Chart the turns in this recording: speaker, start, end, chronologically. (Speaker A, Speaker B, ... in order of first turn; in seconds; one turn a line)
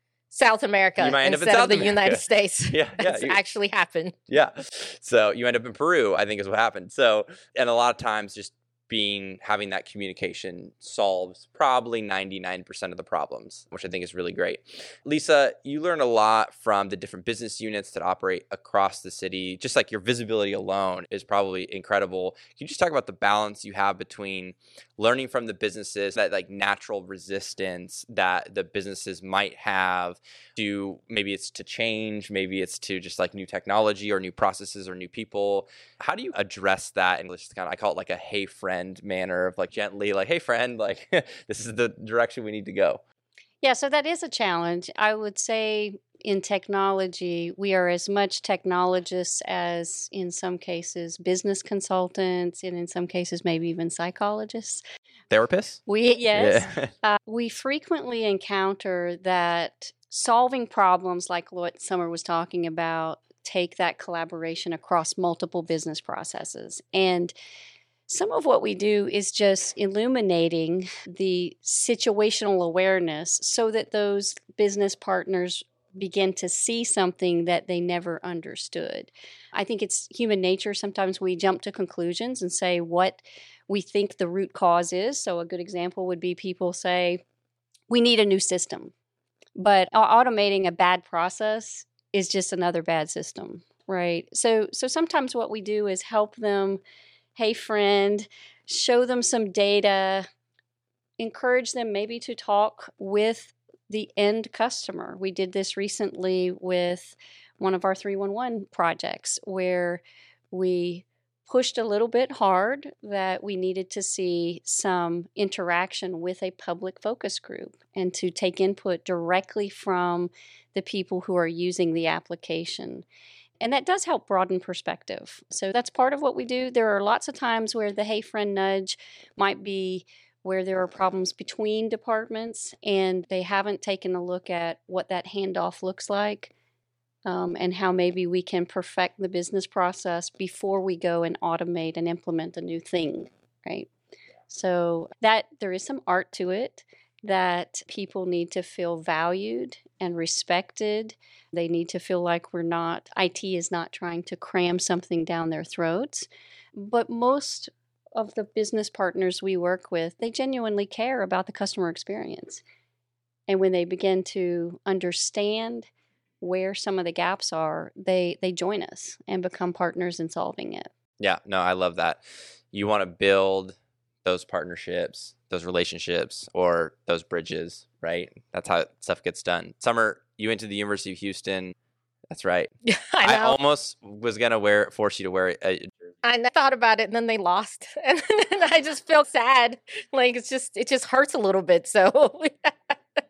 Speaker A: 0.3-4.2
Speaker B: 1.0-3.4
Speaker B: 4.3-43.0
Speaker C: 43.6-54.8
Speaker B: 55.3-55.8
Speaker C: 55.9-67.3
Speaker B: 56.4-56.9
Speaker C: 68.1-87.2
Speaker C: 87.9-88.9
Speaker C: 89.6-96.8
Speaker C: 97.4-100.3
Speaker C: 101.2-123.0
Speaker C: 123.6-136.5
Speaker C: 137.2-143.9
Speaker C: 144.5-162.6
Speaker C: 163.5-165.9
Speaker C: 166.4-170.9
Speaker B: 171.2-181.8
Speaker B: 182.3-182.7
Speaker A: 182.9-183.6
Speaker B: 183.2-185.9
Speaker A: 186.2-192.9